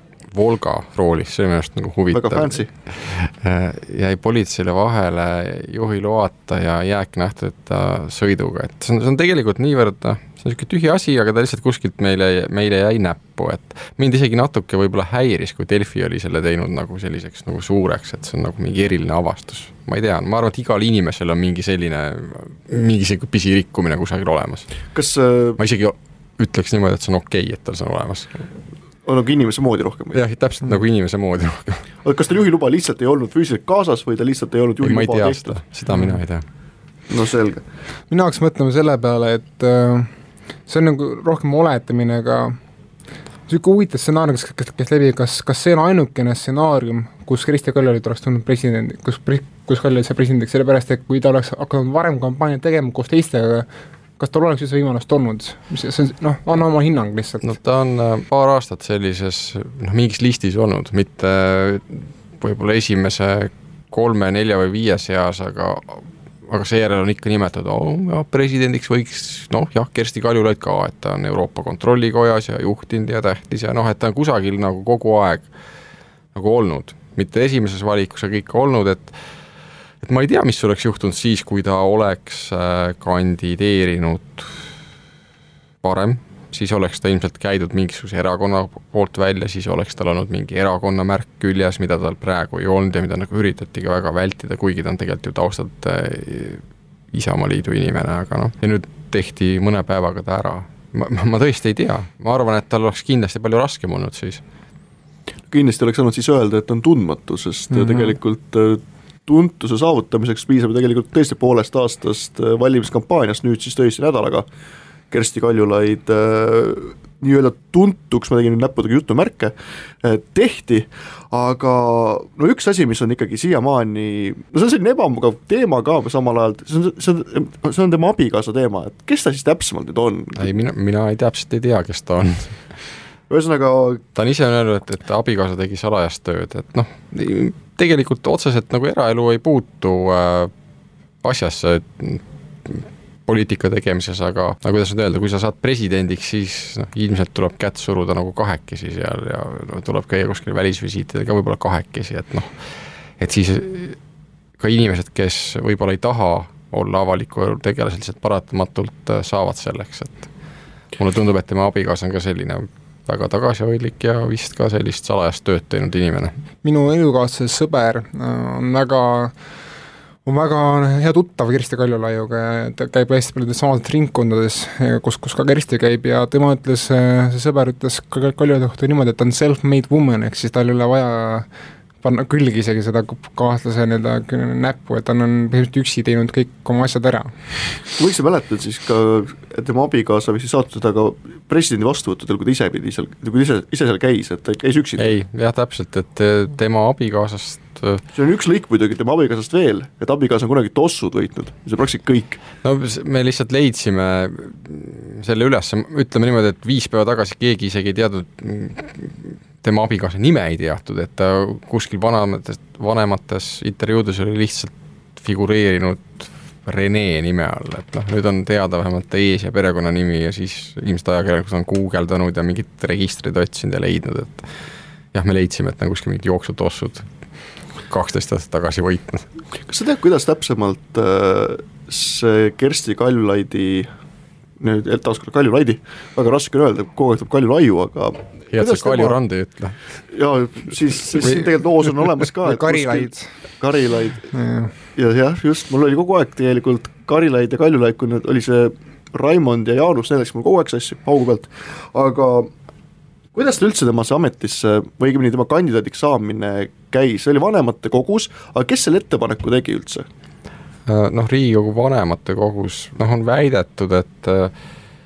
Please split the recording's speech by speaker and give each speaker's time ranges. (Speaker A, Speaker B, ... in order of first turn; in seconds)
Speaker A: 0.3-24.7, 25.6-28.4, 30.1-31.8, 34.8-36.4, 57.4-75.5, 76.3-79.1, 80.0-84.6, 85.8-96.6, 97.1-104.4, 130.4-132.6, 134.1-140.5, 141.2-152.5, 153.2-154.0, 154.6-160.3, 161.0-166.3, 195.0-198.0, 202.6-224.5, 225.1-227.1, 227.9-229.2, 238.5-239.8, 260.9-264.5
Speaker B: 2.1-2.7, 24.9-25.6, 29.1-30.2, 32.0-35.6, 37.1-37.6, 105.5-114.5, 115.1-130.5, 133.3-134.0, 188.0-195.1, 198.1-202.4, 229.7-233.9, 234.6-239.2, 240.1-244.3, 244.9-252.5, 253.3-260.1
Speaker C: 38.1-40.1, 40.7-42.6, 43.5-53.7, 54.2-57.5, 107.8-108.1, 166.6-169.3, 170.2-181.5, 182.0-187.8, 242.4-243.3, 244.3-244.7